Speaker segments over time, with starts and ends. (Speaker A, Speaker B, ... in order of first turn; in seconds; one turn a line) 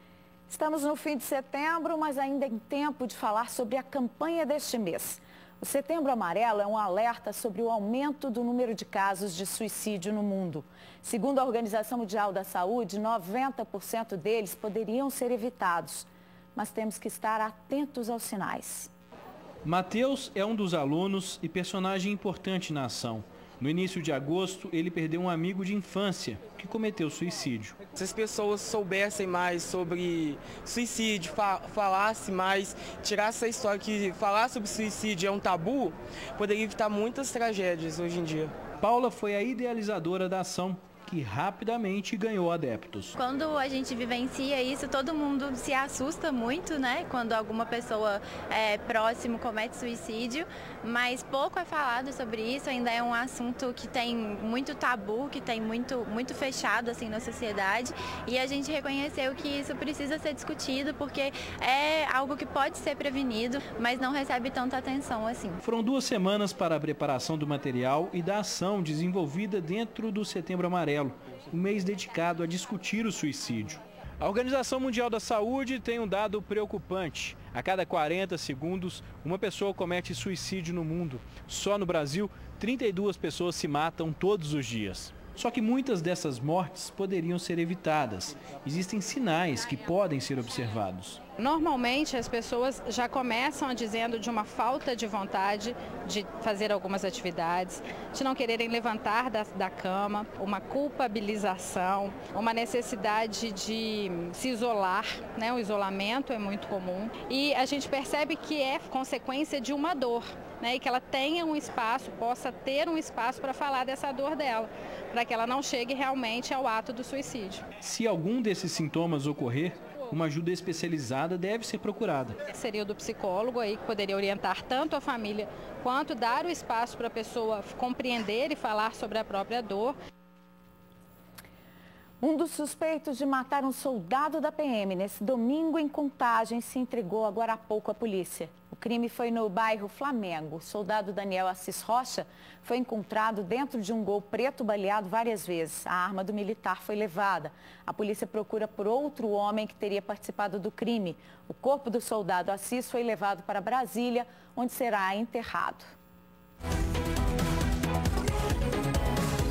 Speaker A: 0.5-18.9
Speaker B: 19.6-27.8
Speaker C: 28.0-38.5
Speaker B: 38.8-43.1
Speaker D: 43.2-65.6
Speaker B: 65.6-91.2
Speaker E: 91.4-117.6
Speaker B: 117.8-122.4
Speaker E: 122.5-129.9
Speaker A: 132.2-155.9